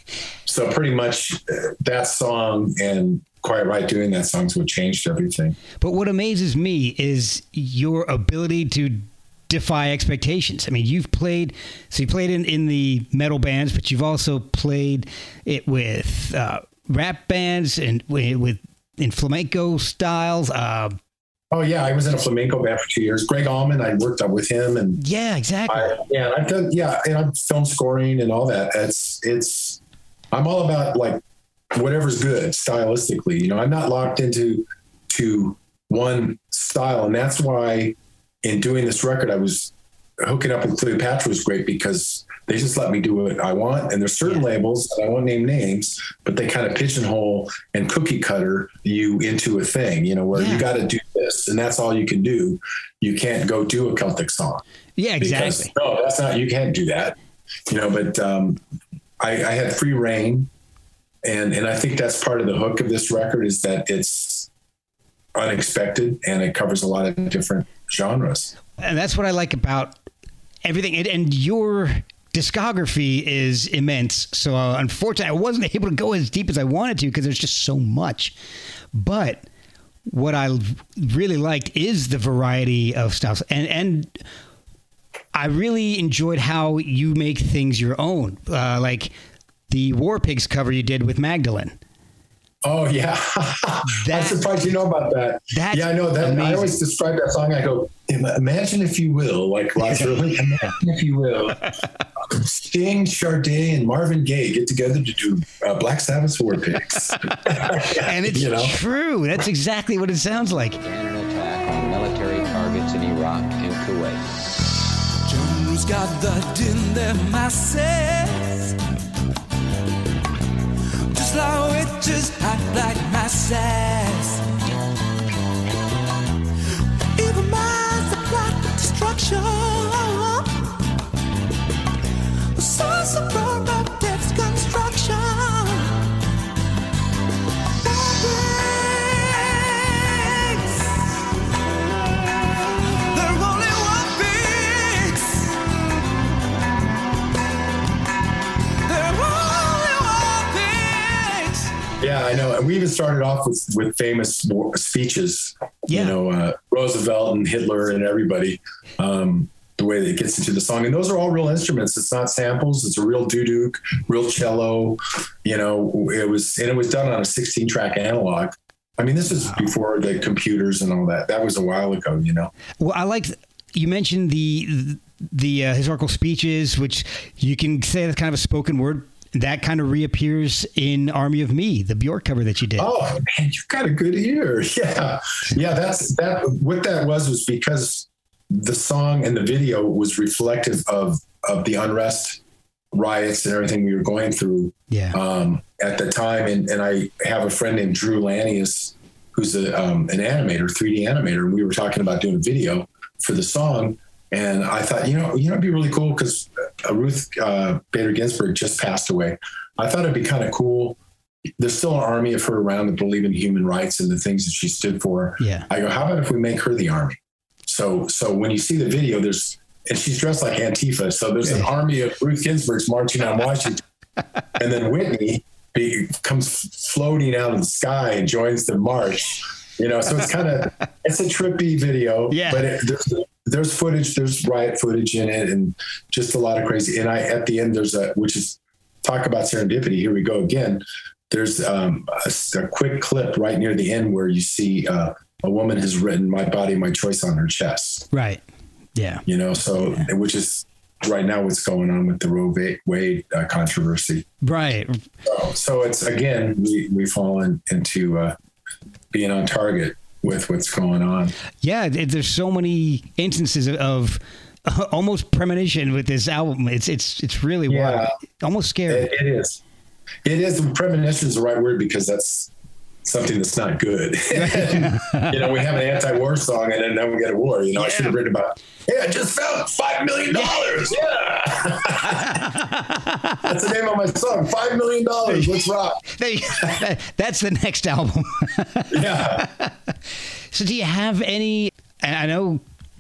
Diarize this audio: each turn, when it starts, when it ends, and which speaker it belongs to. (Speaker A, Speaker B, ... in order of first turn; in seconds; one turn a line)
Speaker A: 0.5-5.6
Speaker B: 5.8-21.0
Speaker A: 21.5-25.0
Speaker B: 25.0-26.0
Speaker A: 25.7-29.8
Speaker A: 30.3-31.2
Speaker A: 31.7-54.6
Speaker B: 50.3-50.7
Speaker B: 55.0-55.7
Speaker A: 55.2-57.2
Speaker A: 57.7-58.6
Speaker A: 59.2-60.5
Speaker A: 61.2-64.5
Speaker A: 65.3-68.5
Speaker B: 68.8-70.0
Speaker B: 70.7-78.3
Speaker B: 78.9-79.5
Speaker B: 80.1-84.2
Speaker B: 85.3-89.1
Speaker B: 89.7-91.8
Speaker A: 92.6-101.7
Speaker B: 93.8-94.4
Speaker B: 95.5-96.8
Speaker B: 99.9-100.7
Speaker A: 102.3-108.8
Speaker B: 107.5-110.8
Speaker C: 110.8-114.2
Speaker D: 115.3-118.7
Speaker D: 121.1-124.4
Speaker D: 127.2-130.7
Speaker D: 132.6-136.0
Speaker D: 137.8-141.2
Speaker D: 143.0-145.6
Speaker D: 148.9-151.8
Speaker A: 152.0-172.5
Speaker B: 155.9-156.2
Speaker B: 172.8-182.9
Speaker A: 182.8-192.4
Speaker A: 192.9-211.0
Speaker B: 194.9-195.2
Speaker A: 211.6-223.8
Speaker B: 215.4-215.7
Speaker B: 221.4-221.7
Speaker A: 224.6-248.1
Speaker B: 232.3-232.7
Speaker B: 248.1-248.4
Speaker B: 248.9-249.2
Speaker A: 249.3-254.3
Speaker B: 254.4-255.0
Speaker A: 255.2-258.4
Speaker A: 259.1-261.3
Speaker B: 261.6-269.1
Speaker A: 267.7-268.1
Speaker A: 268.9-269.6
Speaker A: 270.2-272.5
Speaker A: 273.1-282.5
Speaker B: 274.3-275.4
Speaker B: 277.8-278.2
Speaker B: 280.3-280.9
Speaker B: 281.9-283.4
Speaker A: 283.4-286.0
Speaker B: 285.3-285.6
Speaker B: 286.1-289.7
Speaker A: 288.9-289.5
Speaker B: 290.5-292.6